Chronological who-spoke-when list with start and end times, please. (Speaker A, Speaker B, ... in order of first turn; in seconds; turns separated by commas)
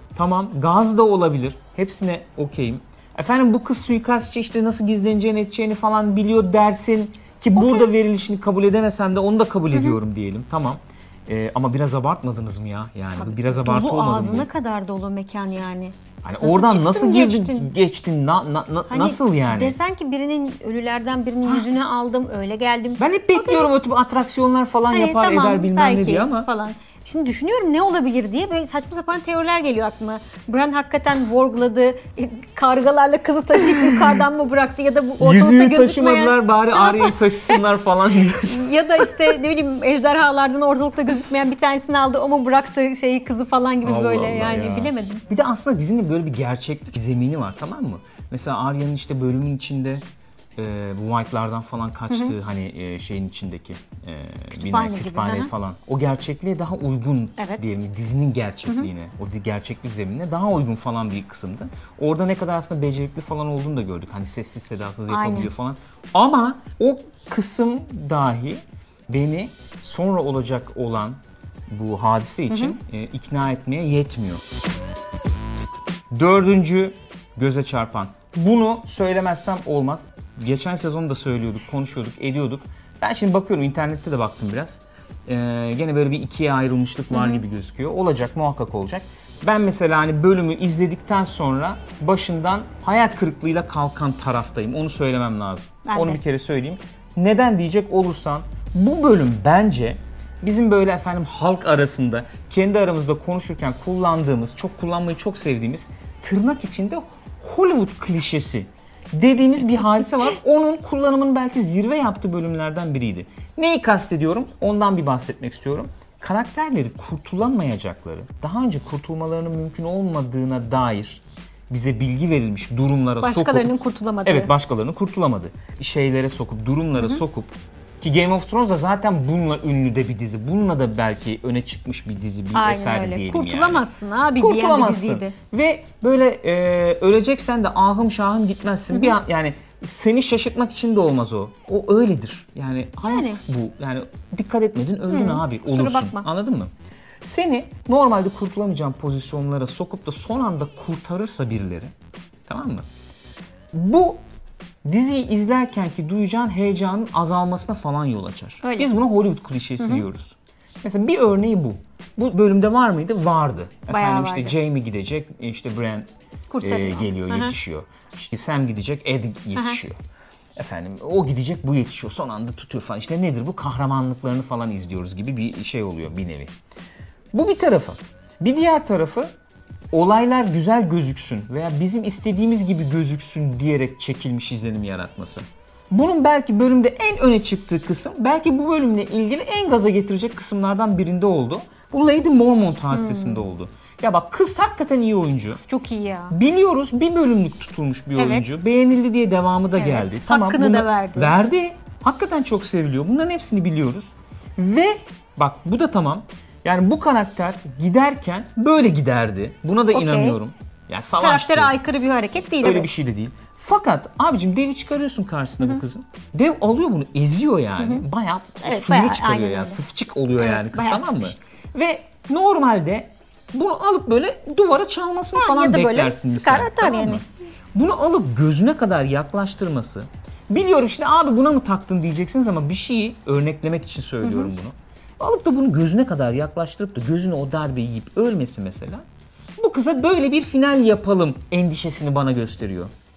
Speaker A: 0.1-14.5, Speaker B: 7.5-7.9, Speaker B: 13.2-17.7, Speaker A: 16.2-19.8, Speaker B: 18.9-23.7, Speaker A: 23.0-26.5, Speaker B: 24.9-37.6, Speaker A: 33.7-34.2, Speaker A: 35.2-39.4, Speaker B: 38.3-45.2, Speaker A: 43.8-50.0, Speaker A: 50.6-74.4, Speaker B: 52.1-52.3, Speaker B: 54.5-55.5, Speaker B: 57.4-57.7, Speaker B: 65.1-65.5, Speaker B: 72.5-72.8, Speaker A: 76.1-123.7, Speaker B: 87.1-87.4, Speaker B: 95.8-96.2, Speaker B: 123.2-124.5, Speaker A: 124.2-133.8, Speaker B: 127.0-127.2, Speaker B: 132.5-135.3, Speaker A: 134.4-146.7, Speaker B: 138.9-139.2, Speaker B: 143.0-143.4, Speaker B: 145.1-146.2, Speaker A: 147.2-151.9, Speaker A: 152.5-152.8, Speaker A: 153.7-154.2, Speaker A: 154.8-166.1, Speaker B: 158.6-158.9, Speaker B: 159.8-160.0, Speaker B: 163.9-164.6, Speaker B: 166.5-167.5, Speaker A: 166.6-170.0, Speaker B: 169.5-169.8, Speaker A: 170.6-176.5, Speaker A: 177.3-179.3, Speaker A: 179.9-195.6, Speaker B: 192.9-193.4, Speaker B: 195.5-196.3, Speaker A: 196.3-211.7, Speaker B: 198.2-198.5, Speaker B: 199.8-201.4, Speaker B: 209.9-210.4, Speaker B: 211.2-212.9, Speaker A: 212.6-239.0, Speaker B: 217.8-218.0, Speaker B: 218.6-219.8, Speaker B: 220.4-221.3, Speaker B: 225.3-227.2, Speaker B: 234.2-234.5, Speaker A: 239.6-242.9